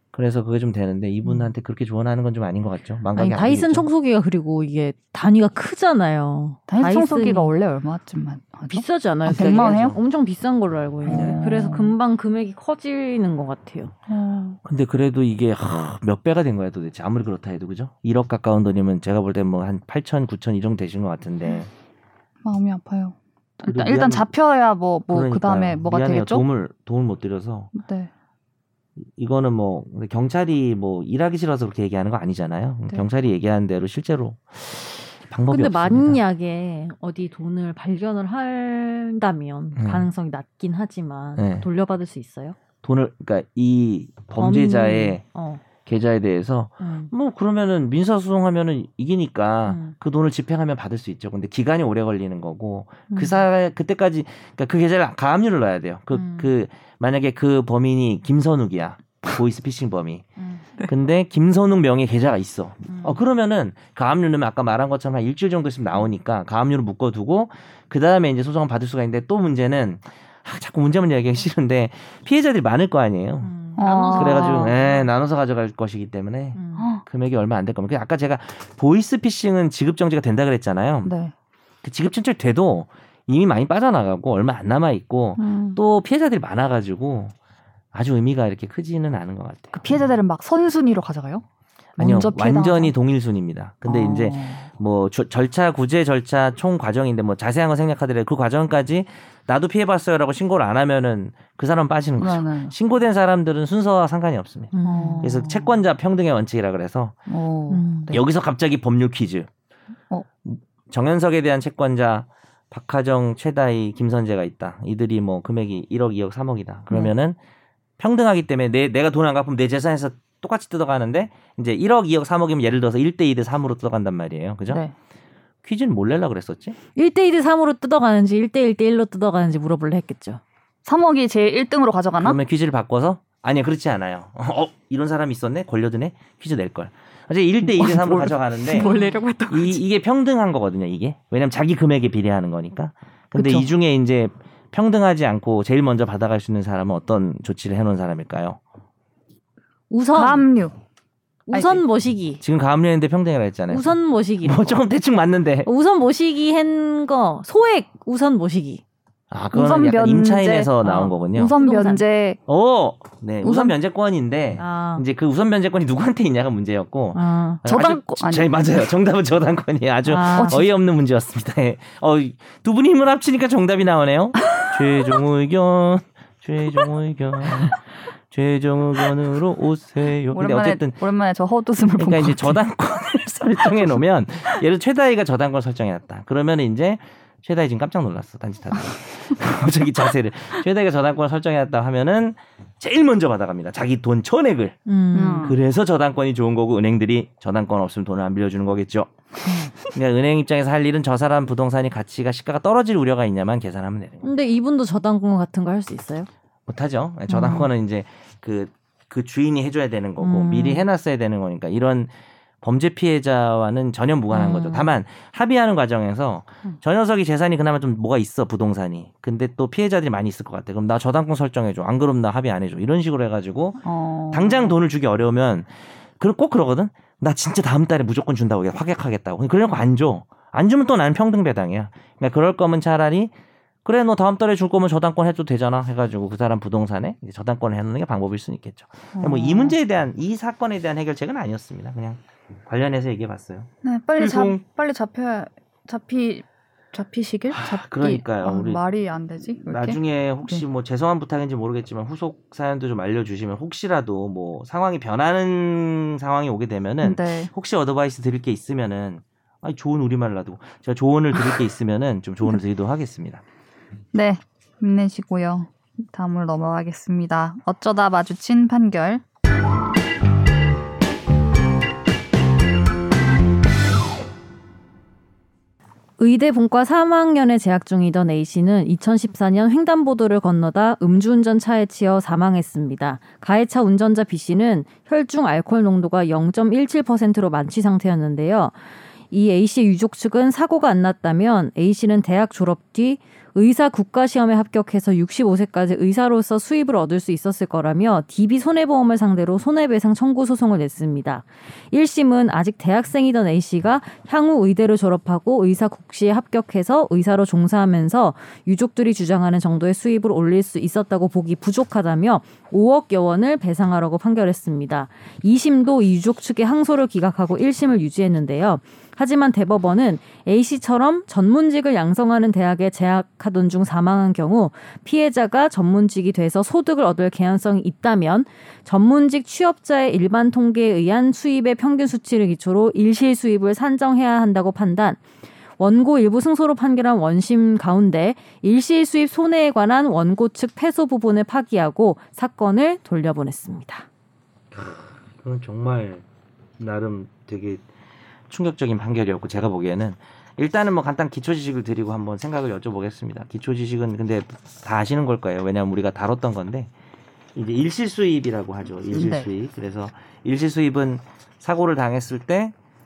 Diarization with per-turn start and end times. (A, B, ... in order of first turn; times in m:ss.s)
0:00.1-0:03.8 A
0:03.1-0:07.5 B
0:06.7-0:10.0 C
0:08.7-0:13.9 B
0:09.3-0:10.0 A
0:11.0-0:11.9 C
0:11.1-0:11.5 A
0:14.1-0:14.6 C
0:14.6-0:21.7 A
0:22.4-0:26.4 C
0:23.6-0:24.3 A
0:25.1-0:27.7 A
0:27.7-0:28.1 C
0:29.0-0:36.2 A
0:35.5-0:42.6 B
0:39.8-0:40.1 A
0:41.4-0:41.6 A
0:42.8-0:45.2 A
0:44.4-0:45.6 B
0:45.8-1:00.2 A
0:46.8-0:47.1 B
0:49.7-0:49.9 B
0:56.1-0:56.5 B
1:00.8-1:13.5 A
1:13.4-1:15.1 B
1:13.8-1:14.7 C
1:14.0-1:21.1 A
1:16.6-1:16.9 B
1:16.8-1:17.0 C
1:21.0-1:21.3 C
1:21.8-1:27.3 A
1:25.4-1:25.8 C
1:27.9-1:30.0 A
1:29.7-1:31.4 C
1:32.0-1:32.9 C
1:32.0-1:47.2 A
1:33.8-1:34.7 C
1:42.2-1:42.7 C
1:44.7-1:45.6 B
1:44.8-1:45.4 C
1:47.3-1:48.2 C
1:47.7-1:48.1 B
1:48.1-1:49.5 A
1:50.4-1:57.4 A
1:58.0-2:04.8 A
2:05.6-2:06.8 A
2:07.0-2:10.4 B
2:10.8-2:12.4 C
2:12.2-2:19.0 A
2:17.6-2:19.8 C
2:18.8-2:19.2 B
2:19.5-2:28.6 A
2:23.4-2:23.7 C
2:29.9-2:30.4 B
2:30.1-2:30.8 C
2:31.5-2:32.4 B
2:31.5-2:31.8 C
2:32.4-2:35.7 A
2:33.7-2:34.8 B
2:35.6-2:38.8 B
2:39.3-2:41.5 A
2:39.5-2:42.4 C
2:40.8-2:42.0 B
2:42.5-3:01.0 A
2:43.4-2:43.7 B
2:44.6-2:45.0 B
2:47.1-2:47.6 B
2:47.6-2:48.5 C
2:50.0-2:50.6 B
2:50.3-2:50.6 C
3:00.3-3:02.6 C
3:02.0-3:14.8 A
3:03.6-3:03.9 C
3:14.9-3:15.5 B
3:15.1-3:15.6 C
3:15.4-3:19.1 A
3:19.4-3:19.7 C
3:19.8-3:24.3 A
3:24.2-3:26.3 B
3:26.7-3:32.1 A
3:27.3-3:27.6 B
3:30.2-3:30.9 B
3:32.6-3:53.3 A
3:34.3-3:34.9 B
3:43.8-3:44.7 C
3:53.8-4:04.6 A
3:59.1-3:59.8 C
4:03.8-4:10.6 C
4:07.5-4:08.8 A
4:09.6-4:23.4 A
4:17.0-4:17.5 C
4:24.1-4:29.2 C
4:36.2-4:48.7 B
4:49.3-5:35.2 B
5:35.8-5:44.0 B
5:44.7-5:46.2 A
5:46.8-5:47.8 A
5:48.5-5:56.9 A
5:57.5-6:02.7 A
5:59.1-5:59.5 C